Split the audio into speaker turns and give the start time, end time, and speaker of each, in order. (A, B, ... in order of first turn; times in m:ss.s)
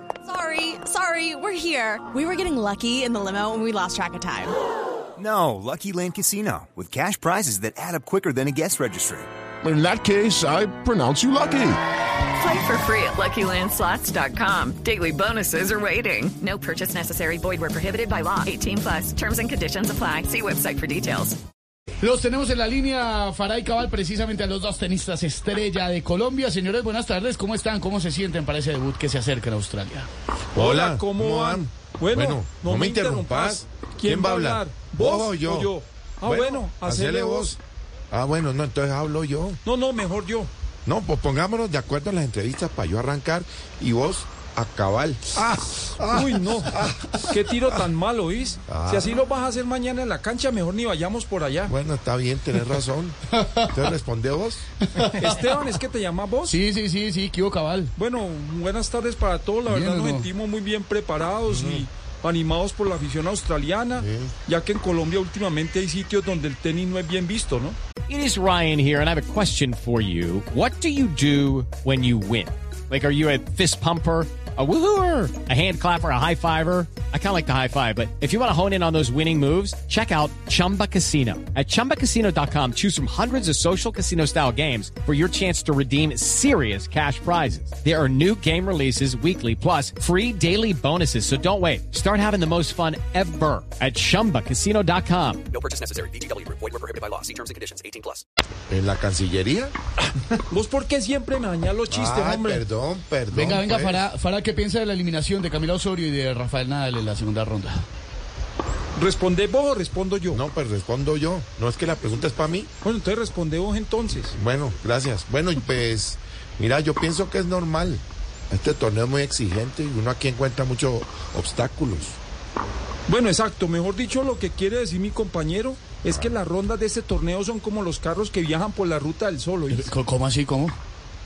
0:00.2-0:04.5 A
0:05.2-0:09.3 B
0:09.6-0:11.8 C
0:12.3-0:21.4 D
0:22.0-0:30.1 E
0:30.5-0:35.7 F
0:30.6-0:35.0 G
0:35.5-0:37.3 G
0:36.2-0:37.6 F
0:38.1-0:39.6 F
0:39.7-0:40.5 G
0:40.8-0:47.2 F
0:46.2-0:46.6 G
0:47.3-0:51.7 G
0:48.7-0:49.1 F
0:51.6-0:54.7 F
0:53.4-0:53.7 E
0:54.9-0:55.6 E
0:55.4-0:56.6 G
0:56.4-0:57.9 E
0:58.0-1:07.8 G
0:59.6-1:00.3 E
1:01.4-1:01.9 F
1:03.9-1:04.3 F
1:08.1-1:35.4 H
1:35.5-1:38.2 I
1:38.7-1:39.7 F
1:40.5-1:42.5 G
1:41.8-1:44.0 F
1:43.3-1:47.8 E
1:49.0-1:50.4 G
1:50.3-1:52.7 F
1:52.8-1:54.3 G
1:54.3-2:02.2 F
2:03.1-2:09.8 G
2:09.7-2:10.7 E